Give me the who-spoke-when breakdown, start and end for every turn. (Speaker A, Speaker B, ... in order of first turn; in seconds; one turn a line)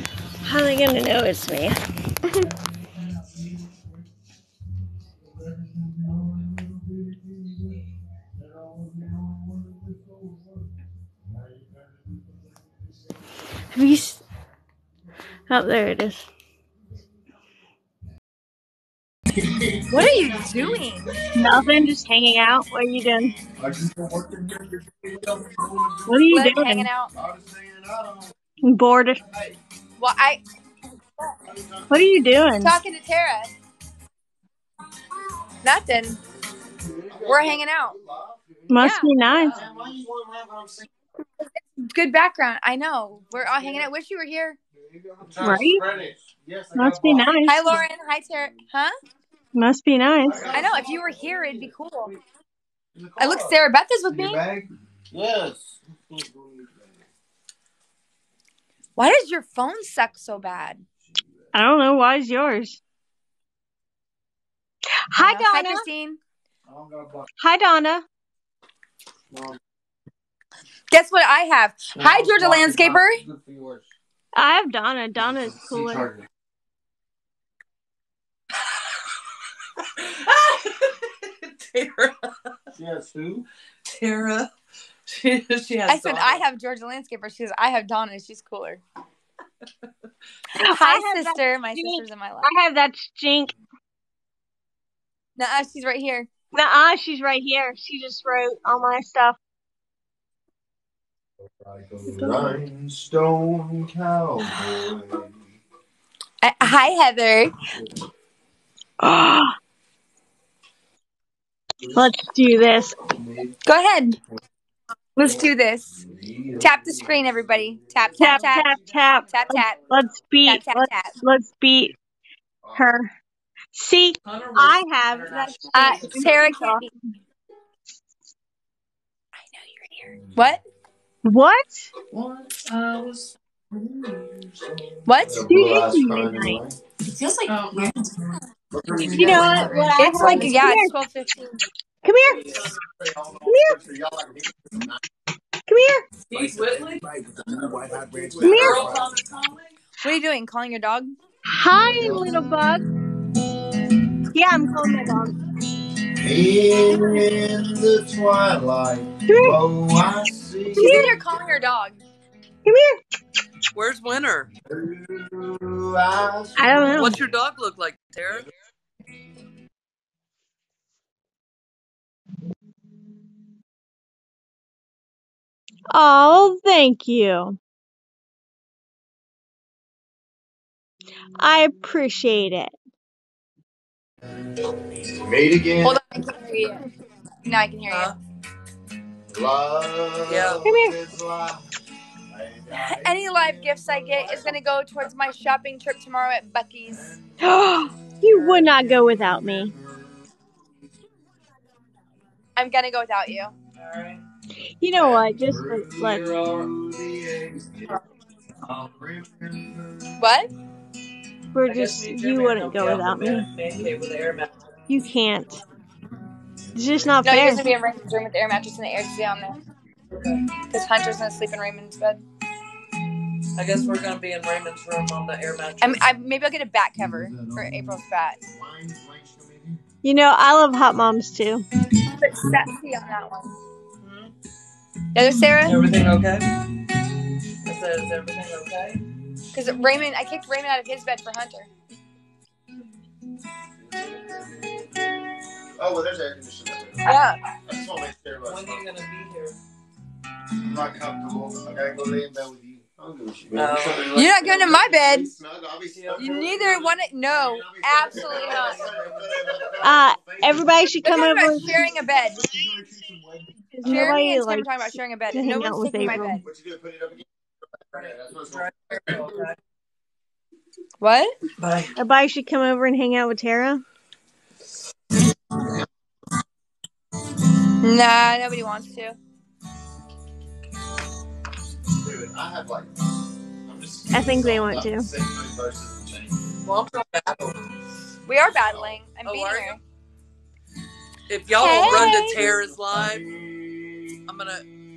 Speaker A: 0.4-1.8
Speaker B: 5.6-7.6
Speaker B: 8.6-9.9
Speaker A: 13.7-14.2
Speaker A: 15.5-16.3
Speaker B: 19.4-20.8
Speaker C: 19.9-21.1
Speaker A: 21.4-23.4
Speaker B: 23.6-26.2
Speaker A: 26.1-26.9
Speaker C: 26.3-27.1
Speaker B: 27.1-28.4
Speaker A: 28.6-29.2
Speaker B: 29.2-29.6
Speaker C: 30.0-30.4
Speaker B: 31.4-32.1
Speaker A: 31.9-32.8
Speaker C: 32.6-33.5
Speaker C: 35.6-36.2
Speaker B: 36.9-40.9
Speaker C: 37.1-38.0
Speaker A: 38.7-39.5
Speaker C: 38.8-39.1
Speaker C: 41.4-44.6
Speaker B: 43.3-43.9
Speaker B: 44.8-47.4
Speaker A: 45.4-45.9
Speaker A: 46.7-47.8
Speaker C: 47.5-48.9
Speaker B: 48.3-48.6
Speaker A: 49.5-50.6
Speaker B: 50.2-51.7
Speaker C: 50.5-52.1
Speaker B: 53.0-57.0
Speaker C: 53.2-54.4
Speaker C: 59.0-60.8
Speaker A: 61.5-62.8
Speaker A: 65.1-65.9
Speaker C: 65.2-66.2
Speaker B: 66.7-67.3
Speaker A: 67.4-68.0
Speaker B: 69.3-69.6
Speaker C: 70.9-73.2
Speaker B: 72.0-73.9
Speaker A: 74.3-76.1
Speaker B: 75.2-76.3
Speaker D: 80.0-82.6
Speaker B: 82.8-83.5
Speaker D: 83.8-84.5
Speaker D: 85.1-86.4
Speaker C: 85.9-88.8
Speaker C: 90.5-92.5
Speaker A: 90.6-93.5
Speaker C: 95.4-96.3
Speaker A: 96.5-99.4
Speaker B: 101.6-105.3
Speaker A: 102.1-102.6
Speaker C: 106.4-107.6
Speaker A: 109.0-109.5
Speaker B: 111.8-112.1
Speaker A: 112.0-113.0
Speaker B: 113.1-113.5
Speaker C: 113.7-114.2
Speaker C: 115.2-115.9
Speaker B: 116.0-118.7
Speaker C: 116.6-119.8
Speaker A: 118.2-122.0
Speaker C: 120.4-121.1
Speaker B: 122.6-122.9
Speaker A: 122.7-123.1
Speaker A: 123.7-126.9
Speaker D: 124.2-126.4
Speaker C: 125.8-126.9
Speaker C: 129.4-130.6
Speaker A: 131.2-131.9
Speaker D: 132.1-134.7
Speaker C: 135.1-135.4
Speaker B: 135.2-136.8
Speaker A: 135.4-136.6
Speaker B: 138.7-139.9
Speaker A: 139.1-140.9
Speaker C: 140.0-141.6
Speaker A: 142.0-142.5
Speaker D: 142.2-142.8
Speaker B: 142.7-145.0
Speaker A: 143.5-143.8
Speaker A: 145.7-146.1
Speaker D: 146.3-147.1
Speaker B: 146.3-149.1
Speaker A: 148.4-148.9
Speaker D: 148.4-149.7
Speaker C: 150.0-151.2
Speaker A: 151.5-152.8
Speaker B: 151.9-152.3
Speaker A: 154.3-155.4
Speaker B: 156.2-161.0
Speaker A: 159.3-159.6
Speaker C: 160.7-162.0
Speaker A: 160.8-161.1
Speaker A: 162.7-163.0
Speaker D: 163.7-164.5
Speaker B: 164.7-167.2
Speaker A: 166.6-167.2
Speaker D: 167.0-168.5
Speaker A: 175.9-177.6
Speaker A: 181.4-182.7
Speaker B: 185.0-186.0
Speaker C: 185.8-186.8
Speaker C: 187.4-188.2
Speaker D: 187.9-188.2
Speaker B: 189.3-191.7
Speaker D: 190.3-190.6
Speaker A: 190.7-191.0
Speaker B: 192.3-194.9
Speaker C: 192.7-197.2
Speaker B: 196.8-200.3
Speaker A: 197.4-199.7
Speaker C: 202.6-203.5
Speaker D: 203.8-204.2
Speaker A: 204.6-206.3
Speaker B: 204.9-208.0
Speaker D: 206.4-206.7
Speaker B: 208.6-210.2
Speaker C: 210.2-210.5
Speaker A: 211.5-213.5
Speaker D: 211.6-214.6
Speaker A: 214.9-215.6
Speaker B: 216.8-217.2
Speaker A: 216.8-217.7
Speaker C: 217.2-219.6
Speaker D: 220.1-220.4
Speaker C: 220.7-222.2
Speaker D: 223.6-226.0
Speaker C: 225.8-228.4
Speaker B: 227.0-227.8
Speaker B: 228.5-229.8
Speaker A: 230.0-231.7
Speaker C: 232.0-234.3
Speaker C: 235.2-235.8
Speaker D: 235.6-236.5
Speaker D: 237.7-239.0
Speaker C: 239.5-241.7
Speaker B: 243.8-244.6
Speaker B: 245.8-248.9
Speaker C: 247.0-247.4
Speaker D: 248.4-249.6
Speaker B: 250.6-260.9
Speaker D: 253.5-254.4
Speaker C: 254.2-255.3
Speaker D: 255.9-256.9
Speaker C: 256.2-258.9
Speaker D: 258.1-259.3
Speaker A: 259.8-261.9
Speaker C: 261.0-262.5
Speaker B: 261.5-264.2
Speaker A: 263.7-266.4
Speaker C: 263.8-266.4
Speaker B: 266.4-267.3
Speaker B: 267.8-269.4
Speaker D: 268.0-269.6
Speaker C: 271.0-271.3
Speaker D: 271.6-271.9
Speaker A: 271.9-273.8
Speaker C: 277.8-279.2
Speaker B: 281.9-282.9
Speaker B: 283.6-286.6
Speaker A: 284.1-285.1
Speaker D: 286.6-287.6
Speaker C: 288.3-289.8
Speaker B: 288.6-289.0
Speaker D: 289.2-289.8
Speaker D: 291.3-293.3
Speaker C: 291.5-292.4
Speaker B: 291.7-294.2
Speaker D: 294.3-294.7